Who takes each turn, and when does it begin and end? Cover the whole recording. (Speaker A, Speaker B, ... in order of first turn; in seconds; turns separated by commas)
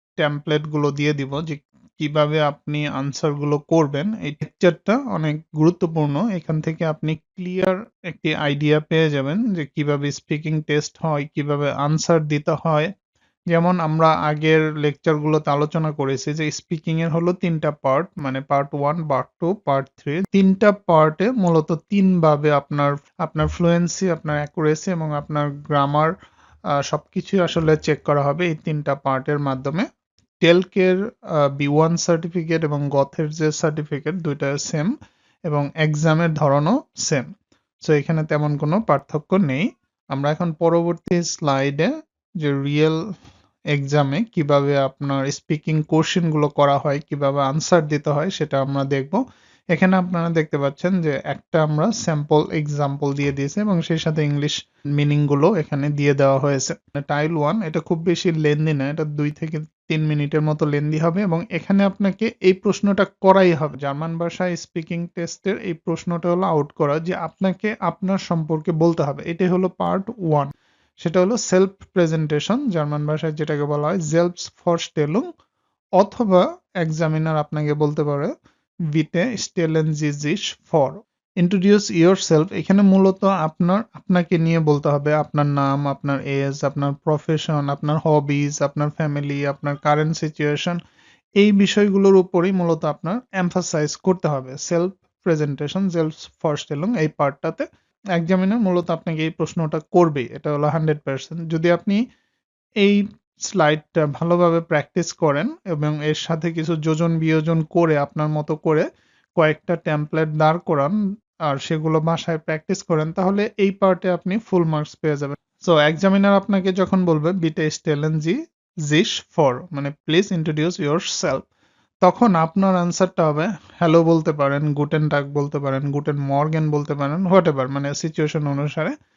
Speaker A: 0.2-12.9, Speaker A: 13.5-26.1, Speaker A: 26.9-29.9, Speaker A: 30.4-34.9, Speaker A: 35.5-37.3, Speaker A: 37.8-41.9, Speaker A: 42.4-43.0, Speaker A: 43.7-49.2, Speaker A: 49.7-75.2, Speaker A: 76.0-78.3, Speaker A: 78.9-90.8, Speaker A: 91.4-97.7, Speaker A: 98.2-102.0, Speaker A: 102.8-108.8, Speaker A: 109.4-110.9, Speaker A: 111.5-118.4, Speaker A: 118.9-121.4, Speaker A: 122.0-128.9